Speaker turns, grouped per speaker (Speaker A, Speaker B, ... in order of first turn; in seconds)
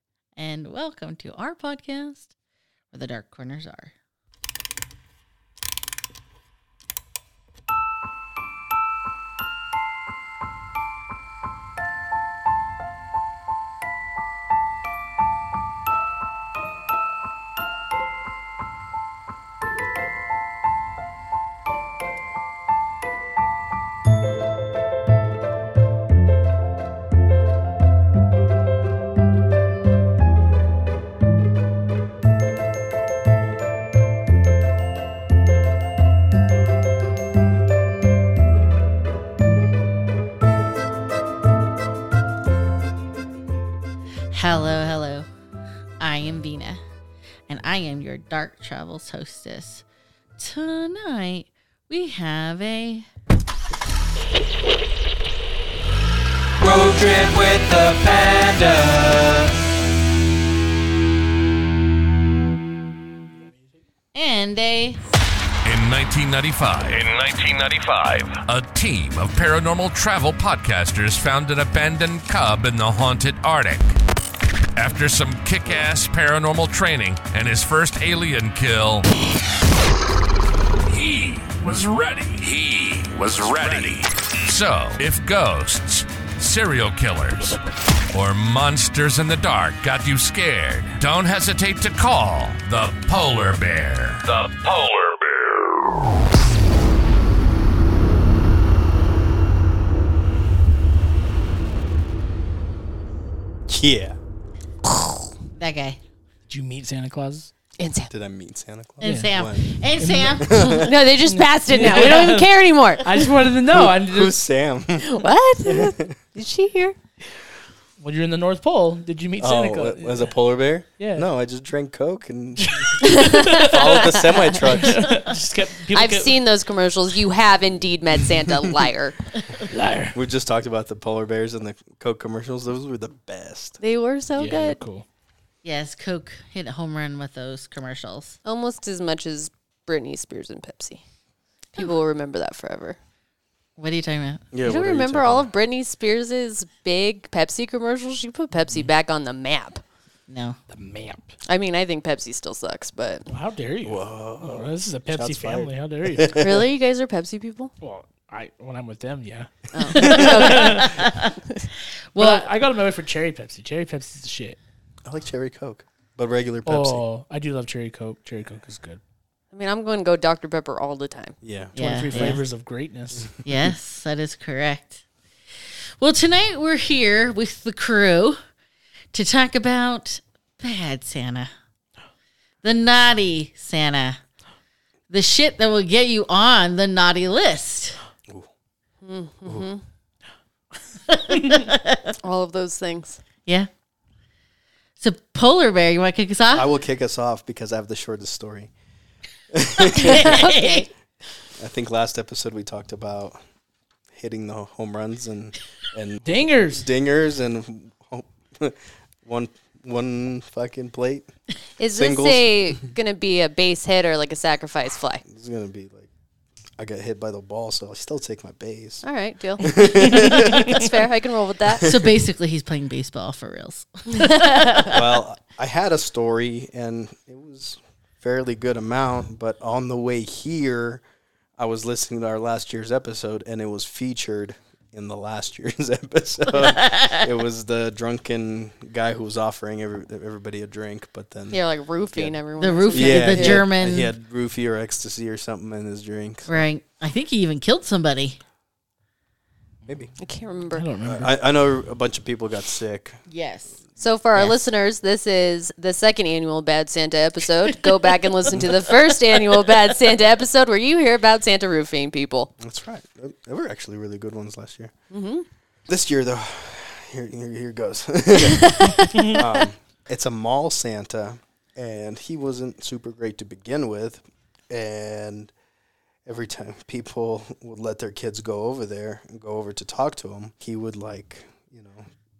Speaker A: 0.3-2.3, 2.9-3.9, 44.3-45.3, 46.0-46.8, 47.5-49.8, 50.4-53.1, 64.1-65.0, 105.6-106.0, 109.0-110.9, 135.6-138.3, 143.8-144.4, 150.3-150.6, 159.9-161.3, 162.1-162.5, 171.8-172.4, 173.4-175.0, 176.0-178.4, 179.1-181.5, 182.6-184.2, 185.1-188.0, 191.1-192.1, 195.0-196.7, 199.8-200.9, 221.8-225.2, 236.5-237.3, 242.6-244.1, 246.5-248.4, 253.3-253.7
Speaker B: 56.6-59.5
Speaker C: 65.6-74.0, 74.8-79.1, 80.9-87.6, 88.1-95.2
Speaker D: 103.7-104.2, 108.1-110.9, 113.7-115.1, 115.7-116.2, 119.4-125.1, 130.1-133.8, 144.5-145.5, 153.8-156.6, 165.1-167.0, 171.4-172.4, 173.2-173.7, 196.5-198.7, 199.5-200.5, 201.6-203.4, 204.1-211.3, 211.9-212.8, 215.3-216.1, 216.8-219.0, 219.6-220.9, 224.9-231.0, 231.6-241.6, 242.9-246.7, 249.8-250.1, 251.0-253.2, 262.6-264.9, 265.9-275.5, 276.2-282.1
Speaker E: 106.5-107.5, 109.0-109.3, 110.0-110.5, 111.3-114.4, 118.0-120.3, 121.0-121.3, 122.6-126.3, 129.6-130.2, 134.3-135.0, 150.7-151.3, 153.3-156.4, 157.8-161.1, 162.2-164.6, 166.7-169.0, 171.8-173.3, 206.2-206.8, 250.7-251.3
Speaker F: 107.8-108.1, 110.8-113.1, 115.0-116.9, 123.0-124.4, 125.9-129.1, 133.8-134.8, 138.4-141.0, 141.8-143.0, 144.7-149.8, 151.4-153.2, 156.3-157.7, 159.7-161.7, 169.5-171.3, 189.0-189.8, 192.2-193.2, 200.1-200.9, 211.8-215.2, 219.0-221.9, 224.1-224.9, 241.5-243.7, 250.2-250.9, 254.0-262.5, 265.1-265.4